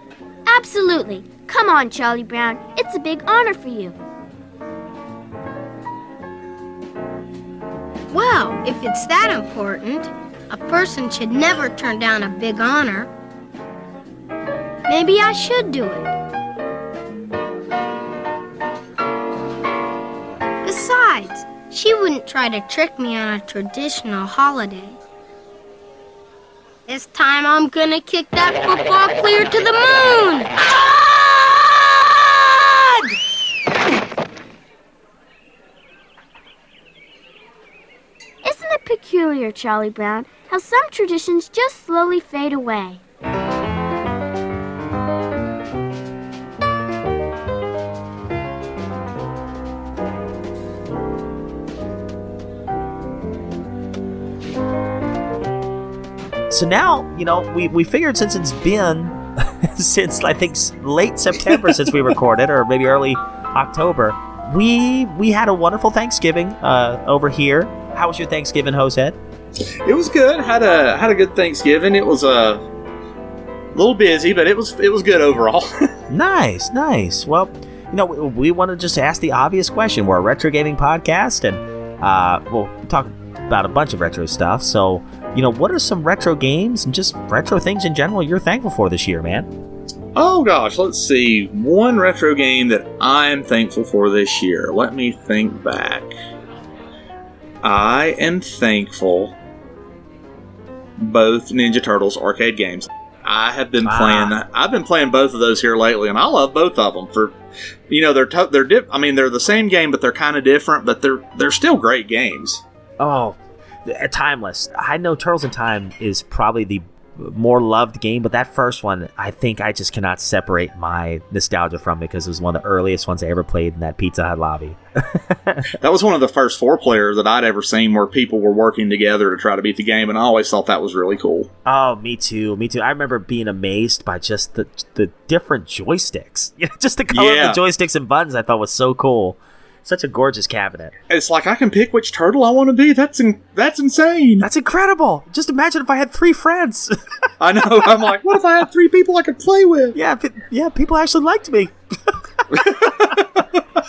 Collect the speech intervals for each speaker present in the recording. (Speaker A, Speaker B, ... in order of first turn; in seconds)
Speaker A: 0.5-3.9, 38.4-43.0
Speaker B: 8.1-13.1, 14.9-16.1, 20.6-25.0, 26.9-30.5
Speaker C: 56.5-69.2, 76.1-89.5, 103.8-104.3, 113.0-125.6, 131.6-140.9, 144.4-146.9, 149.9-151.7
Speaker D: 61.5-61.9, 69.8-72.6, 73.7-75.7, 90.1-96.1, 97.6-99.3, 101.0-107.3, 107.9-112.6, 125.8-131.5, 137.1-137.6, 141.1-144.4, 147.4-149.9, 152.6-153.2